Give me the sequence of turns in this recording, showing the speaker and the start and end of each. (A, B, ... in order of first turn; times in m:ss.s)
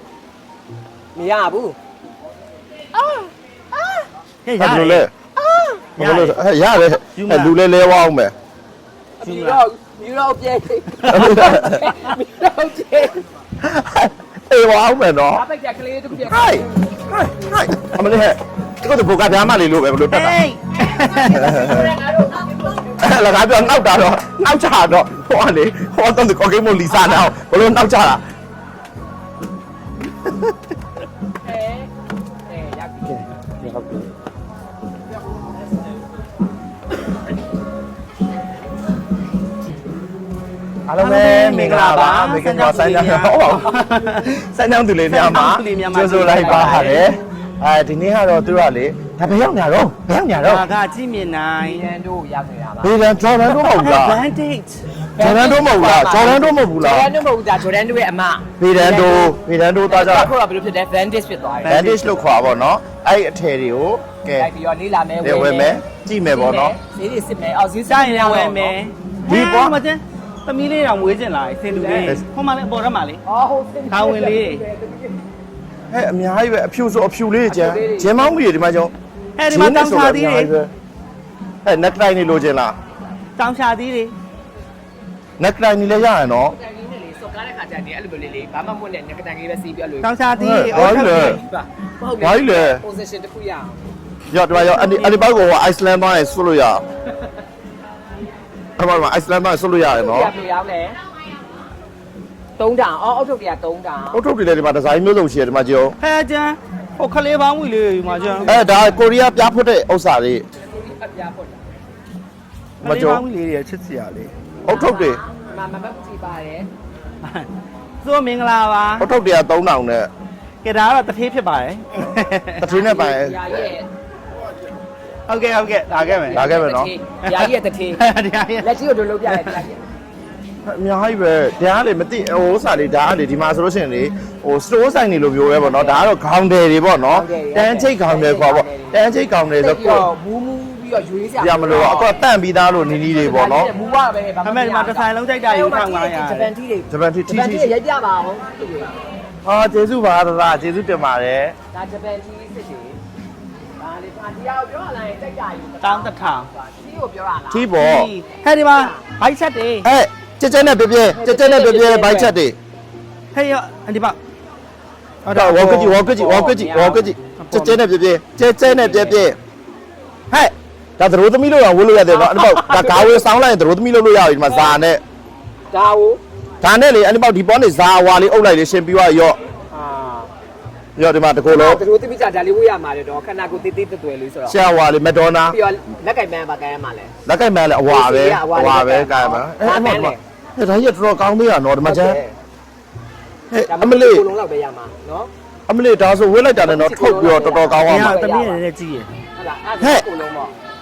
0:01.2-0:01.8 A
0:03.0-0:03.3 A
0:03.8-0:04.0 A
0:04.5-0:05.1 B
0:04.6-0:05.1 C
0:05.4-0:05.9 A
0:06.0-0:08.3 C
0:06.0-0:06.4 B
0:07.1-0:07.6 B
0:09.2-0:13.2 A
0:09.2-0:09.6 B
0:11.1-0:11.8 C
0:13.6-0:15.4 C
0:15.3-0:16.9 A
0:16.2-0:20.4 C
0:20.1-0:21.5 B
0:20.8-0:23.1 A
0:21.3-0:22.0 C
0:23.0-0:28.2 C
0:31.4-0:31.9 A
0:32.5-0:33.2 A
0:33.6-0:34.1 C
0:40.9-0:50.7 C
0:41.0-0:44.3 B
0:41.6-0:42.2 A
0:45.1-0:47.1 B
0:45.3-0:45.6 A
0:46.2-0:47.0 A
0:50.4-0:51.8 B
0:51.6-0:52.9 A
0:52.8-0:54.2 C
0:53.8-0:54.8 B
0:55.2-0:59.4 A
0:55.2-0:57.1 C
0:58.6-1:00.3 C
0:59.9-1:01.8 A
1:01.6-1:02.3 B
1:01.7-1:04.5 C
1:04.4-1:05.8 A
1:05.2-1:06.8 C
1:06.3-1:08.8 A
1:07.9-1:13.2 B
1:09.3-1:09.8 C
1:11.7-1:12.2 A
1:13.2-1:15.2 A
1:13.9-1:14.6 B
1:15.9-1:18.9 C
1:17.5-1:18.3 A
1:19.4-1:20.5 B
1:19.5-1:20.7 C
1:21.6-1:22.8 C
1:23.4-1:24.1 B
1:25.4-1:26.6 C
1:26.5-1:30.1 A
1:30.0-1:31.4 B
1:30.4-1:31.4 C
1:30.7-1:33.8 A
1:32.2-1:32.8 C
1:34.3-1:36.8 C
1:34.5-1:35.2 B
1:38.8-1:40.3 C
1:39.9-1:41.0 A
1:42.6-1:44.2 A
1:44.1-1:46.0 C
1:46.0-1:48.6 B
1:48.2-1:48.9 A
1:48.5-1:50.4 C
1:50.6-1:51.6 A
1:52.8-1:54.4 B
1:52.8-1:53.2 C
1:54.6-1:55.2 C
1:54.7-1:56.7 A
1:57.2-1:57.5 B
1:58.0-1:59.1 B
1:59.0-2:00.1 C
2:00.6-2:02.6 B
2:02.6-2:03.8 C
2:02.6-2:03.9 A
2:04.4-2:04.7 C
2:05.3-2:06.4 B
2:06.0-2:08.0 A
2:06.3-2:06.9 C
2:07.2-2:08.7 B
2:08.6-2:09.8 A
2:09.3-2:09.6 B
2:10.6-2:20.1 C
2:15.5-2:16.1 A
2:17.1-2:19.0 A
2:19.6-2:22.2 A
2:21.4-2:23.7 C
2:23.2-2:29.0 A
2:24.4-2:26.5 B
2:26.9-2:27.7 C
2:29.4-2:31.6 C
2:31.7-2:33.0 A
2:33.8-2:37.7 A
2:35.8-2:36.5 B
2:37.5-2:38.1 C
2:37.8-2:39.9 B
2:38.6-2:39.0 A
2:39.8-2:42.6 C
2:41.1-2:42.3 A
2:43.3-2:44.2 B
2:45.2-2:46.0 B
2:45.3-2:49.4 C
2:46.1-2:47.1 A
2:47.4-2:47.8 B
2:48.6-2:49.3 A
2:51.0-2:55.0 C
2:52.1-2:53.2 A
2:54.5-2:54.8 A
2:55.7-2:56.2 A
2:56.6-2:59.4 C
2:59.7-3:00.3 A
3:01.0-3:01.8 C
3:01.5-3:04.6 A
3:04.5-3:05.6 C
3:05.5-3:07.1 A
3:07.2-3:12.2 C
3:07.9-3:10.2 A
3:11.8-3:12.4 A
3:13.5-3:14.3 C
3:13.7-3:15.3 A
3:15.7-3:18.2 C
3:16.6-3:18.6 A
3:17.8-3:19.1 B
3:19.4-3:20.5 A
3:19.8-3:20.1 C